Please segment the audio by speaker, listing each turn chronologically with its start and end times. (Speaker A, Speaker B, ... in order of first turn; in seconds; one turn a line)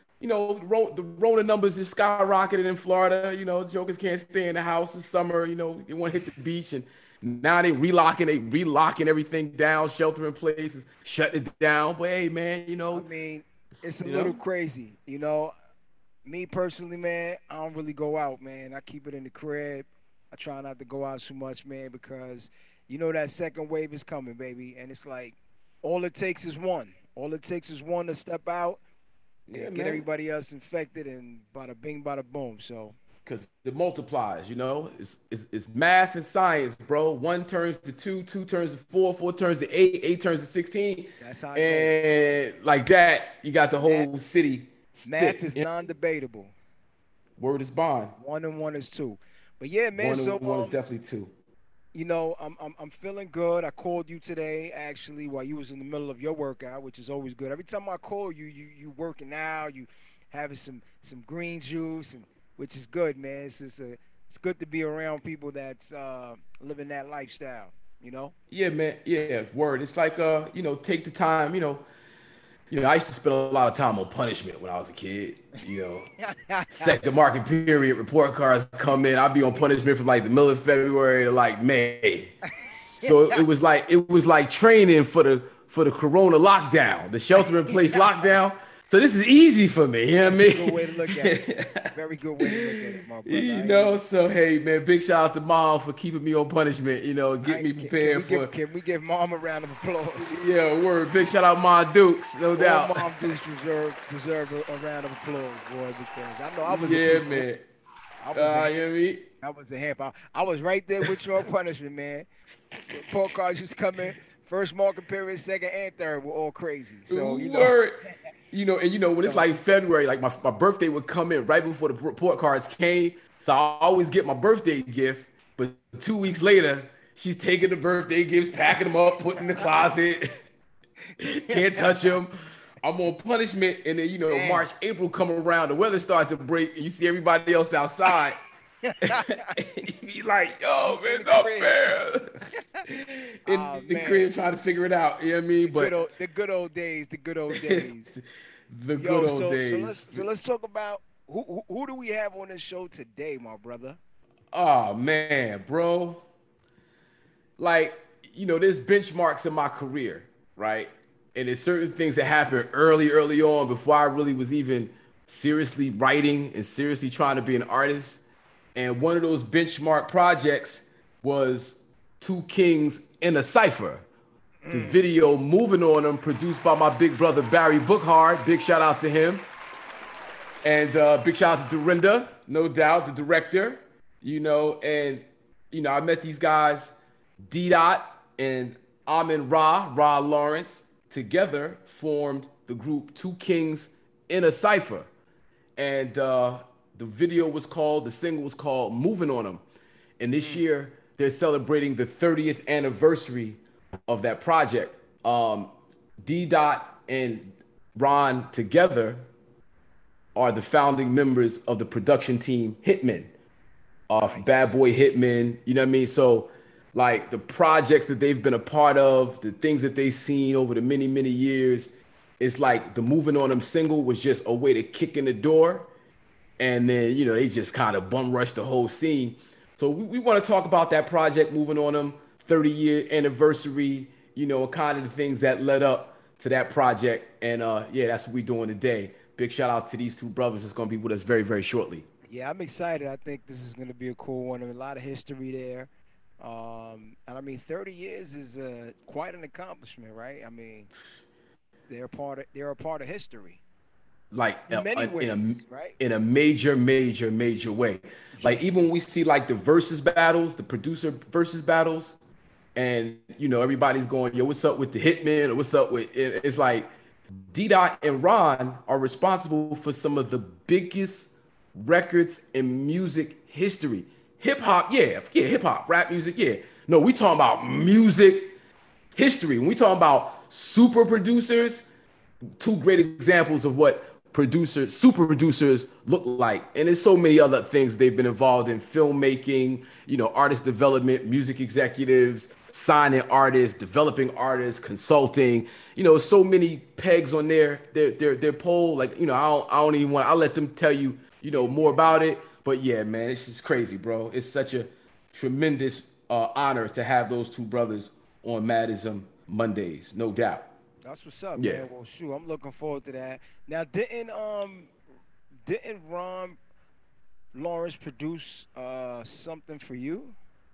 Speaker A: 0.2-13.1
Speaker B: 12.9-15.5
Speaker A: 13.7-14.4
Speaker B: 16.2-28.8
Speaker A: 29.5-30.0
Speaker B: 29.5-33.0
Speaker A: 33.2-45.7
Speaker B: 41.2-42.0
Speaker B: 45.0-46.5
Speaker A: 47.4-48.1
Speaker B: 48.2-50.8
Speaker A: 50.0-51.3
Speaker B: 51.9-68.3
Speaker A: 68.5-71.8
Speaker A: 72.7-76.1
Speaker B: 76.2-77.0
Speaker A: 76.7-82.3
Speaker A: 83.0-91.8
Speaker B: 83.0-83.4
Speaker B: 87.4-88.0
Speaker B: 90.3-94.0
Speaker A: 92.4-98.5
Speaker B: 97.5-100.4
Speaker A: 100.2-103.2
Speaker B: 102.5-107.5
Speaker A: 106.7-107.6
Speaker B: 108.2-108.7
Speaker A: 108.3-109.2
Speaker B: 109.4-112.2
Speaker B: 112.9-117.7
Speaker A: 117.1-130.3
Speaker A: 131.2-138.4
Speaker B: 131.5-131.8
Speaker B: 134.3-134.7
Speaker B: 138.8-139.5
Speaker A: 139.6-145.9
Speaker B: 140.8-141.7
Speaker B: 143.5-144.3
Speaker B: 145.6-148.1
Speaker A: 147.5-148.2
Speaker A: 148.7-150.3
Speaker B: 148.9-154.0
Speaker A: 154.5-156.2
Speaker A: 157.6-168.2
Speaker A: 168.7-174.0
Speaker B: 174.7-175.0
Speaker A: 174.7-179.5
Speaker A: 180.6-186.9
Speaker A: 187.5-195.1
Speaker A: 195.8-199.6
Speaker A: 200.2-205.7
Speaker A: 206.2-209.3
Speaker A: 210.3-213.3
Speaker A: 214.1-221.9
Speaker A: 222.4-225.9
Speaker A: 226.6-242.1
Speaker B: 242.3-245.9
Speaker B: 246.4-250.9
Speaker B: 251.9-253.6
Speaker A: 254.3-262.1
Speaker B: 254.7-256.0
Speaker A: 262.8-266.9
Speaker A: 267.5-278.5
Speaker A: 279.1-281.8
Speaker A: 282.6-310.7
Speaker B: 311.0-314.9
Speaker A: 311.6-311.9
Speaker B: 315.6-316.6
Speaker B: 317.5-320.4